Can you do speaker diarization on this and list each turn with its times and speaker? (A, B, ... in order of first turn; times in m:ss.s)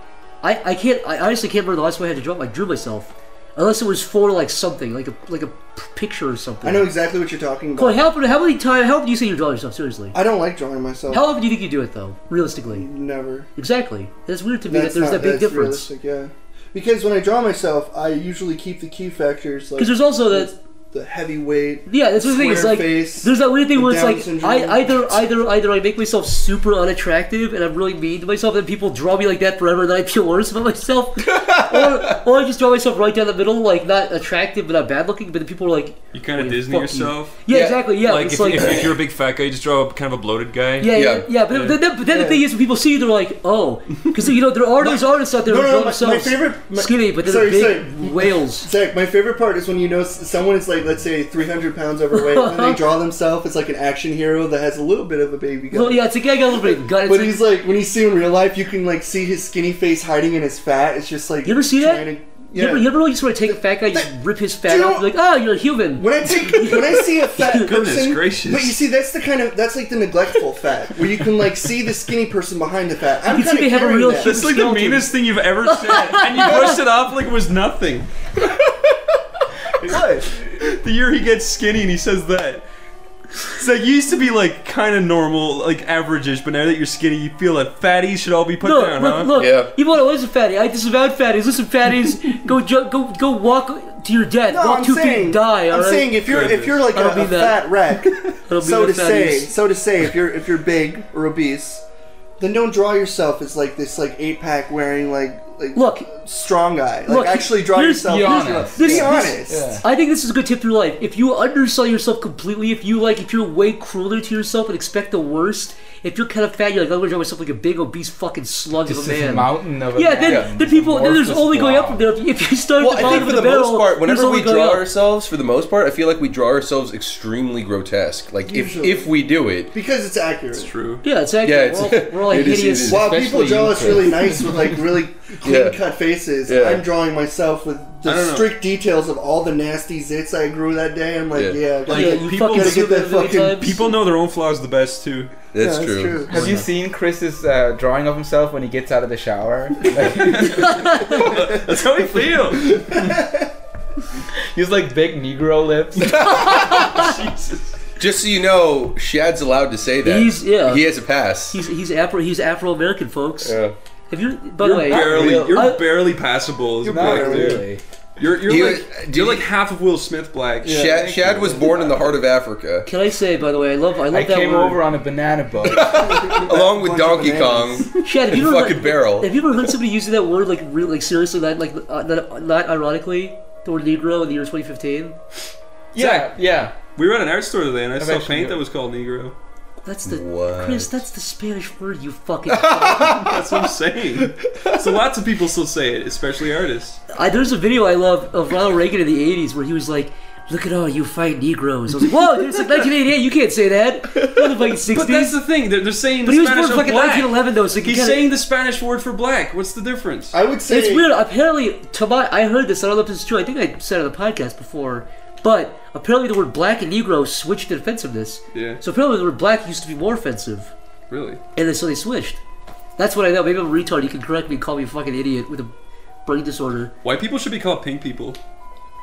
0:00.4-0:06.9 A
0:06.6-0:08.0 B
0:07.8-0:10.2 A
0:10.1-0:11.3 B
0:11.1-0:12.9 A
0:12.7-0:13.5 B
0:13.6-0:15.9 A
0:14.7-0:25.2 B
0:19.8-0:20.5 A
0:21.9-0:38.9 A
0:31.2-0:32.2 C
0:36.1-0:37.4 D
0:37.5-0:37.8 C
0:38.0-0:40.9 D
0:40.8-0:48.7 A
0:40.9-0:41.3 C
0:41.5-0:41.8 D
0:42.1-0:42.4 B
0:44.8-1:02.9 B
0:52.1-0:52.8 A
0:55.7-0:57.4 A
1:01.4-1:07.7 A
1:03.4-1:04.1 B
1:04.6-1:05.1 B
1:06.0-1:14.4 B
1:07.6-1:08.8 D
1:13.3-1:15.1 A
1:14.2-1:18.7 D
1:15.7-1:16.8 A
1:19.8-1:22.7 D
1:19.8-1:20.3 B
1:23.4-1:29.3 D
1:28.6-1:36.2 A
1:29.3-1:29.7 C
1:34.5-1:41.8 B
1:36.3-1:36.8 D
1:36.9-1:37.7 A
1:38.5-1:39.5 A
1:42.4-1:49.8 B
1:45.7-1:46.1 A
1:47.1-2:04.9 A
1:48.0-1:49.8 E
1:58.7-2:02.1 E
2:02.8-2:09.7 C
2:08.4-2:10.7 B
2:10.5-2:11.0 D
2:11.0-2:13.1 A
2:11.4-2:13.1 C
2:12.9-2:14.5 E
2:12.9-2:23.8 B
2:15.4-2:15.8 C
2:16.4-2:16.8 C
2:18.0-2:18.6 D
2:21.3-2:21.7 C
2:21.9-2:25.4 D
2:21.9-2:23.8 A
2:25.5-2:26.4 C
2:25.6-2:26.7 B
2:26.3-2:30.8 E
2:30.1-2:32.8 D
2:30.8-2:31.2 A
2:31.2-2:33.5 B
2:34.5-2:36.3 E
2:36.0-2:37.1 C
2:36.4-2:37.7 D
2:36.5-2:36.9 A
2:38.0-2:41.6 C
2:40.0-2:40.9 A
2:41.5-2:43.6 A
2:43.4-2:43.8 C
2:44.1-2:45.8 A
2:44.6-2:47.6 D
2:44.8-2:45.6 E
2:46.8-2:47.6 B
2:46.9-2:47.8 E
2:48.2-2:52.2 D
2:48.4-2:49.5 C
2:50.6-2:51.1 B
2:50.6-2:52.9 C
2:52.9-2:54.8 A
2:54.1-2:56.1 E
2:55.7-2:59.3 C
2:55.9-2:58.1 B
2:58.0-3:05.2 A
3:05.9-3:06.8 E
3:06.0-3:06.4 D
3:07.0-3:09.4 D
3:08.0-3:08.6 E
3:09.8-3:13.2 A
3:10.1-3:11.0 C
3:12.5-3:13.4 C
3:13.0-3:17.0 D
3:14.3-3:14.8 C
3:17.1-3:25.4 A
3:24.9-3:30.4 D
3:26.2-3:28.2 A
3:30.3-3:31.1 B
3:30.7-3:40.7 A
3:38.5-3:38.8 D
3:41.1-3:41.4 D
3:41.6-3:42.4 A
3:43.0-3:45.7 A
3:46.3-3:46.9 A
3:47.0-3:48.4 D